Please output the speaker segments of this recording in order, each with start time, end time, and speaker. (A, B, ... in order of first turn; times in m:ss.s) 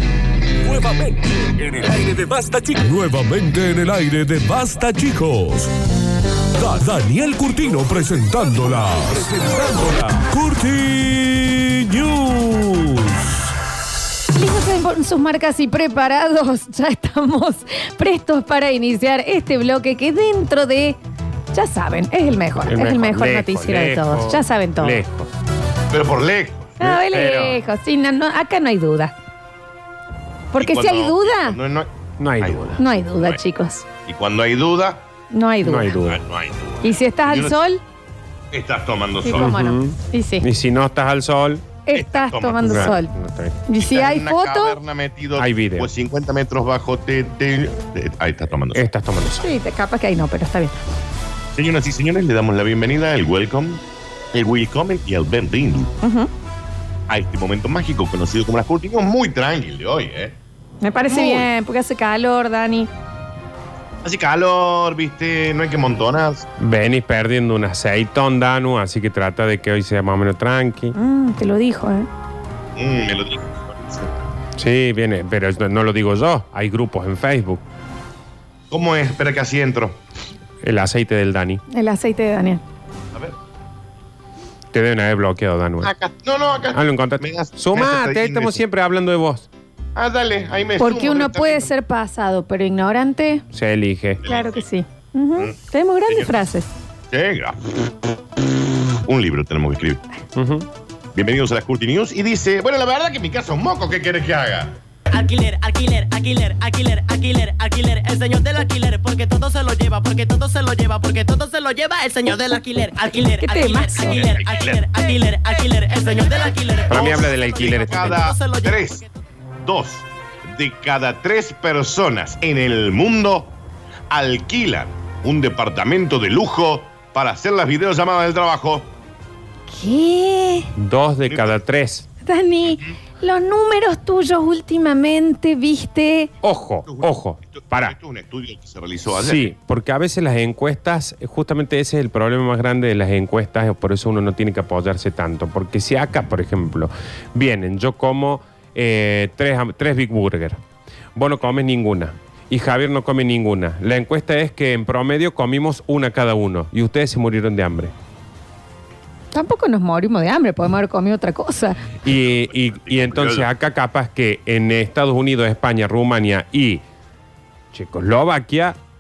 0:00.6-0:05.7 A
0:06.6-0:13.5 A
0:14.3-0:21.0 B
0:21.5-0:25.0 B
0:22.7-0:25.3 C
0:25.9-0:26.8 D
0:26.8-0:27.6 C
0:26.8-0:29.2 B
0:30.5-0:31.6 B
0:30.6-0:33.4 D
0:32.2-0:32.8 C
0:32.8-0:33.8 B
0:34.0-0:35.0 D
0:35.3-0:36.0 B
0:35.6-0:36.2 C
0:36.0-0:37.6 D
0:36.8-0:37.8 B
0:38.5-0:39.6 D
0:39.2-0:40.5 B
0:39.4-0:41.6 C
0:41.9-0:43.1 B
0:41.9-0:43.0 D
0:42.7-0:43.6 C
0:43.7-0:44.8 B
0:43.8-0:48.8 D
0:45.4-0:45.9 C
0:48.7-0:49.5 C
0:49.4-0:50.8 B
0:51.6-0:56.0 D
0:56.0-0:56.3 B
0:57.1-1:00.4 D
1:00.8-1:02.9 B
1:01.1-1:01.5 D
1:04.0-1:06.5 D
1:06.6-1:11.0 C
1:10.9-1:12.1 B
1:12.8-1:14.2 D
1:14.6-1:17.6 C
1:18.7-1:20.0 D
1:20.6-1:21.6 C
1:21.7-1:22.6 B
1:24.7-1:25.9 C
1:25.8-1:28.6 D
1:26.7-1:29.5 C
1:30.0-1:31.7 D
1:30.8-1:33.4 B
1:33.5-1:34.2 C
1:34.2-1:34.6 D
1:34.2-1:36.7 B
1:36.1-1:36.5 D
1:37.1-1:40.0 D
1:40.4-1:40.7 C
1:41.2-1:44.8 D
1:45.1-1:59.0 E
1:53.4-1:54.2 B
1:54.1-1:54.8 D
1:56.9-1:58.3 C
1:56.9-1:59.0 D
1:59.6-2:03.6 D
2:04.1-2:08.9 D
2:09.7-2:10.7 B
2:10.8-2:12.1 C
2:11.3-2:11.6 D
2:12.2-2:16.3 B
2:12.6-2:13.0 D
2:16.4-2:18.0 C
2:16.9-2:19.5 D
2:19.1-2:30.6 C
2:31.2-2:37.9 C
2:39.3-2:41.8 B
2:42.0-2:46.8 C
2:42.0-2:43.5 D
2:47.7-2:48.8 C